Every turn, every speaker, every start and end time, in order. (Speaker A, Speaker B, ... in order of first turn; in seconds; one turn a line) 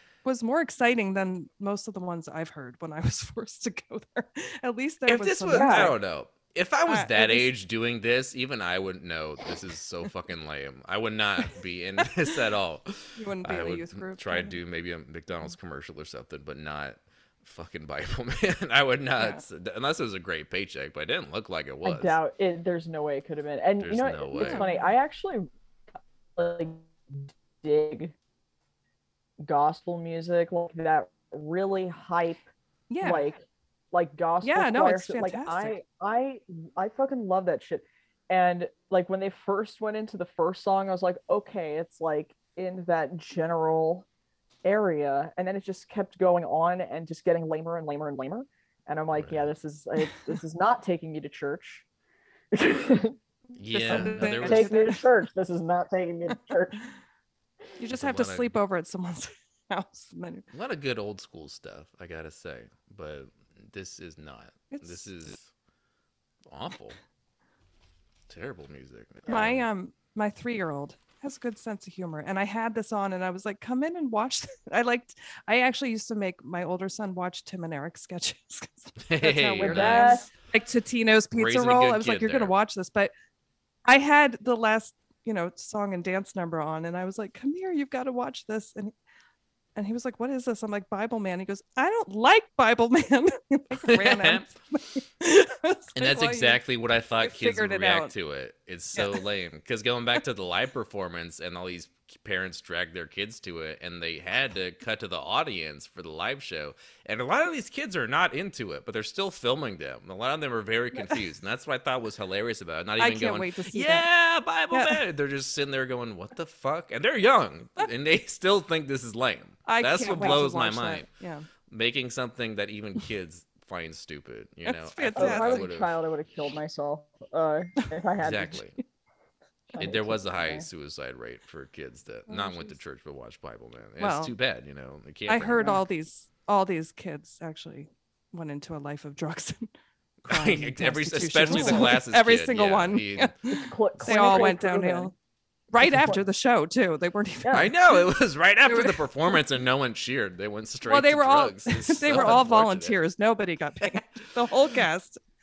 Speaker A: 0.2-6.0
Speaker B: 5.0-22.2
Speaker C: 5.5-5.9
Speaker A: 6.8-7.5
Speaker A: 12.0-12.3
Speaker A: 13.2-14.6
Speaker A: 19.2-19.4
Speaker C: 21.8-25.5
Speaker B: 23.8-24.6
Speaker A: 24.4-24.9
Speaker C: 26.4-28.1
Speaker C: 29.4-32.4
Speaker A: 32.9-33.3
Speaker C: 33.0-44.0
Speaker A: 34.4-35.8
Speaker C: 44.6-51.8
Speaker B: 49.1-49.5
Speaker C: 52.5-53.2
Speaker B: 53.5-54.8
Speaker A: 53.7-55.1
Speaker C: 53.9-56.8
Speaker A: 57.8-60.4
Speaker B: 57.9-58.5
Speaker B: 60.5-65.5
Speaker A: 64.7-65.0
Speaker B: 66.5-67.0
Speaker B: 68.3-69.7
Speaker A: 69.3-83.1
Speaker B: 79.1-80.2
Speaker C: 79.6-80.3
Speaker B: 81.3-82.5
Speaker A: 83.8-88.9
Speaker A: 89.8-96.6
Speaker B: 93.7-94.5
Speaker B: 95.9-121.1
Speaker A: 97.2-98.1
Speaker A: 98.9-99.2
Speaker A: 113.0-114.1
Speaker A: 114.7-115.0
Speaker A: 119.7-121.5
Speaker B: 121.7-126.0
Speaker A: 124.7-125.7
Speaker C: 125.2-128.6
Speaker B: 128.2-128.8
Speaker C: 129.7-130.7
Speaker B: 129.8-135.8
Speaker A: 132.3-132.7
Speaker A: 134.0-134.3
Speaker A: 135.3-139.7
Speaker B: 140.2-143.3
Speaker A: 140.3-145.1
Speaker C: 141.5-141.9
Speaker C: 143.5-145.1
Speaker A: 145.7-148.1
Speaker C: 145.8-146.2
Speaker B: 147.5-152.9
Speaker A: 148.6-149.4
Speaker A: 150.8-155.2